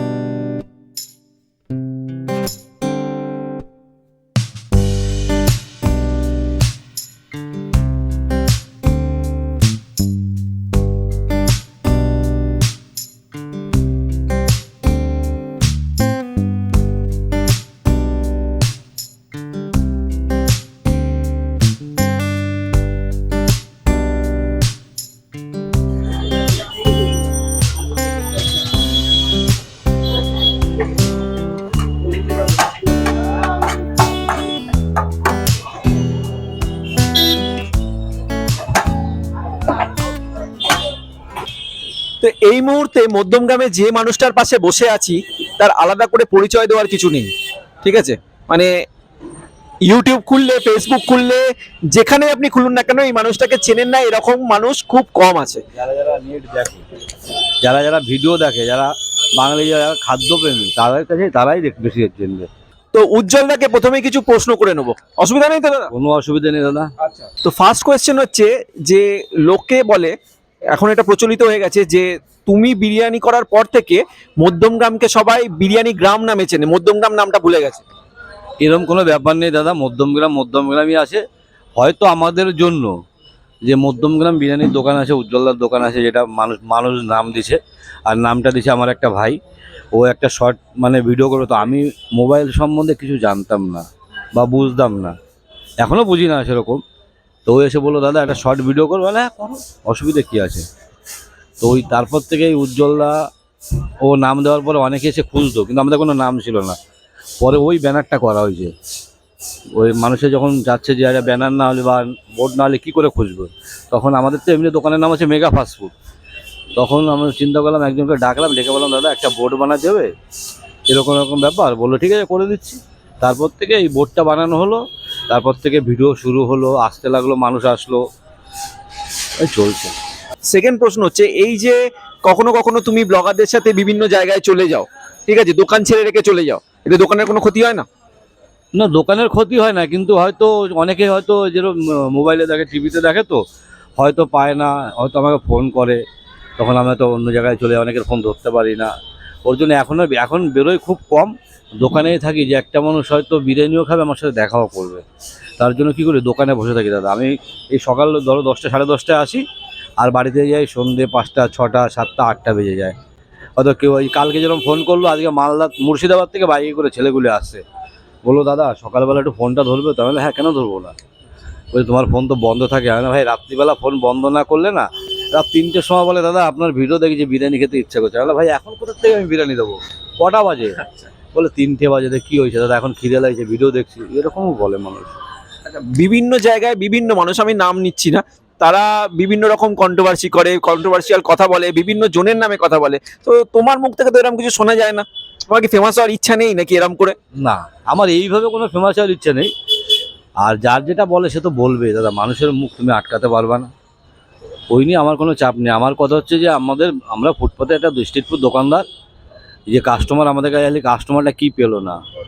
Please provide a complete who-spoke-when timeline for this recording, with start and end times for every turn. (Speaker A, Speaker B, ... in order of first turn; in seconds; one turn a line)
Speaker A: 42.2-47.3
Speaker A: 47.8-48.7
Speaker A: 49.8-55.6
Speaker B: 55.7-56.8
Speaker B: 57.6-62.5
Speaker A: 62.9-65.9
Speaker B: 65.9-66.9
Speaker A: 67.0-70.2
Speaker A: 70.7-77.8
Speaker B: 78.6-81.2
Speaker B: 81.8-83.0
Speaker B: 83.6-89.4
Speaker B: 89.9-95.2
Speaker B: 95.8-96.8
Speaker B: 97.5-100.6
Speaker B: 101.6-103.2
Speaker B: 104.0-106.8
Speaker B: 107.4-108.7
Speaker B: 109.7-115.9
Speaker B: 116.8-120.1
Speaker B: 120.9-128.0
Speaker B: 129.4-129.9
Speaker A: 130.5-137.8
Speaker B: 138.7-143.4
Speaker B: 144.0-146.0
Speaker B: 146.6-148.9
Speaker B: 149.4-155.0
Speaker B: 155.6-159.4
Speaker B: 160.0-162.9
Speaker B: 163.6-167.6
Speaker B: 168.2-170.9
Speaker B: 171.7-185.1
Speaker A: 185.7-197.1
Speaker B: 197.3-199.5
Speaker B: 200.4-203.7
Speaker B: 204.7-208.8
Speaker B: 209.7-212.0